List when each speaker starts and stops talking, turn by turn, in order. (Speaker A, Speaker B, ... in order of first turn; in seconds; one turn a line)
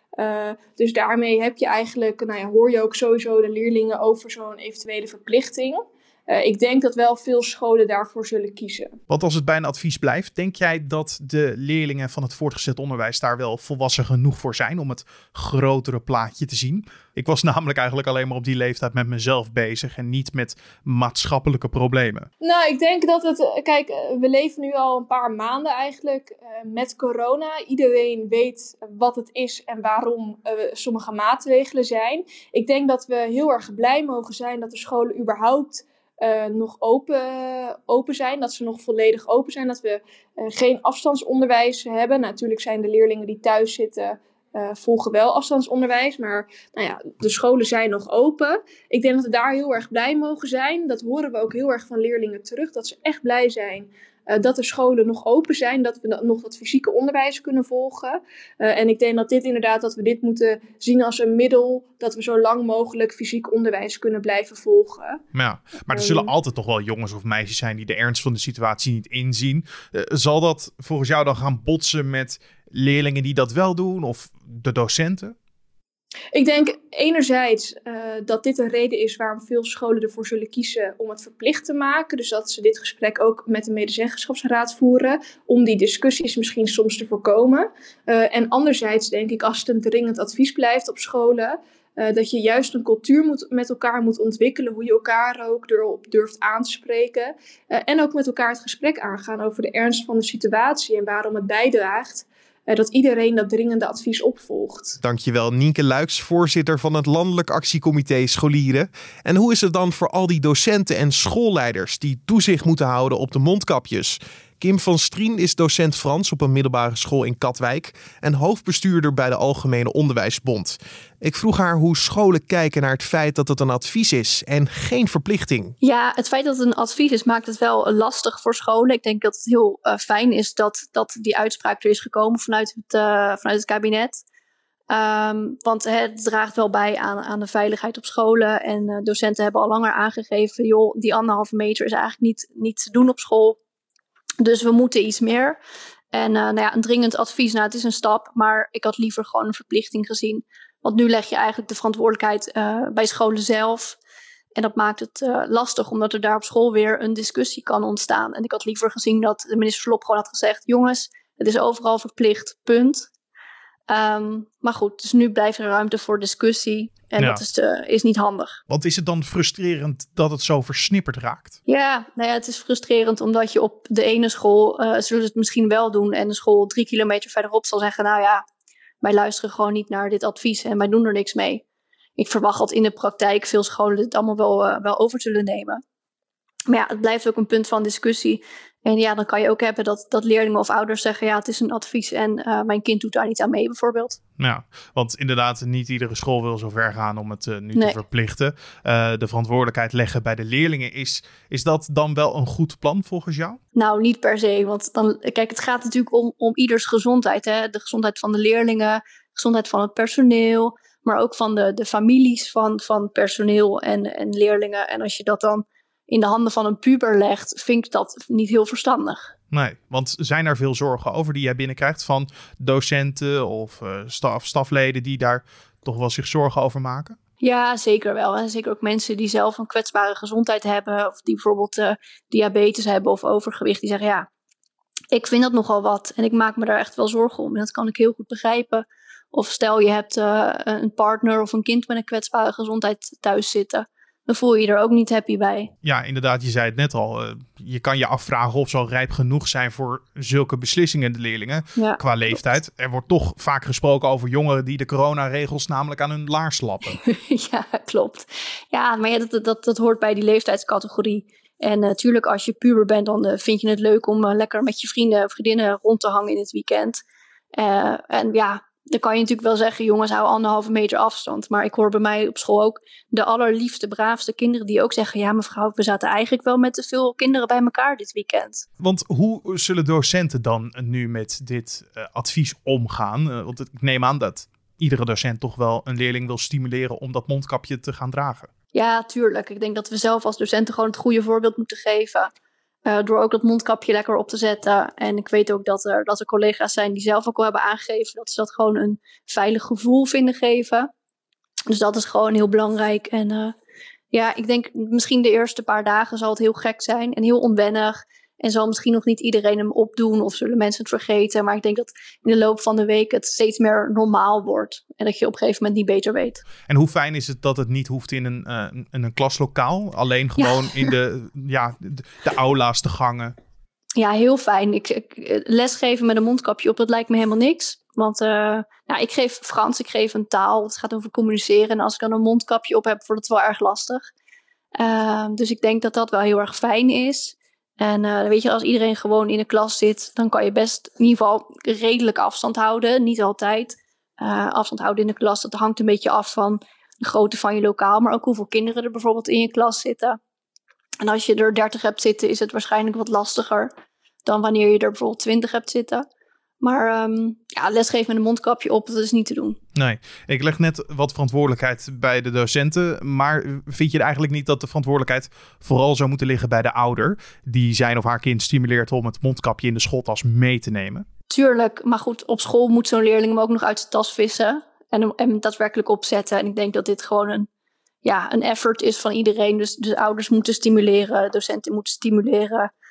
Speaker A: 0.2-8.9
Speaker B: 9.1-22.3
Speaker A: 22.4-65.2
Speaker B: 65.3-75.3
Speaker A: 65.9-66.3
Speaker A: 76.3-105.0
Speaker C: 105.0-125.8
Speaker D: 125.8-134.2
Speaker D: 134.9-143.6
Speaker D: 144.4-145.6
Speaker D: 146.1-154.0
Speaker D: 154.6-163.1
Speaker D: 163.9-168.6
Speaker B: 168.7-171.6
Speaker D: 171.7-178.4
Speaker D: 179.0-181.6
Speaker D: 182.2-185.8
Speaker D: 186.7-194.2
Speaker B: 194.4-203.6
Speaker D: 203.8-219.3
Speaker B: 219.5-227.2
Speaker D: 227.4-234.3
Speaker D: 235.1-245.7
Speaker B: 245.8-257.0
Speaker D: 251.8-252.6
Speaker D: 256.9-267.0
Speaker D: 267.6-278.6
Speaker B: 278.8-288.5
Speaker D: 288.7-292.3
Speaker D: 292.9-300.9
Speaker D: 301.7-303.6
Speaker D: 304.1-316.4
Speaker B: 316.7-323.4
Speaker D: 320.4-320.9
Speaker D: 324.0-334.1
Speaker D: 334.8-350.2
Speaker D: 351.0-353.7
Speaker D: 354.3-356.1
Speaker D: 356.6-359.6
Speaker B: 359.8-371.1
Speaker D: 371.3-377.5
Speaker D: 378.0-382.7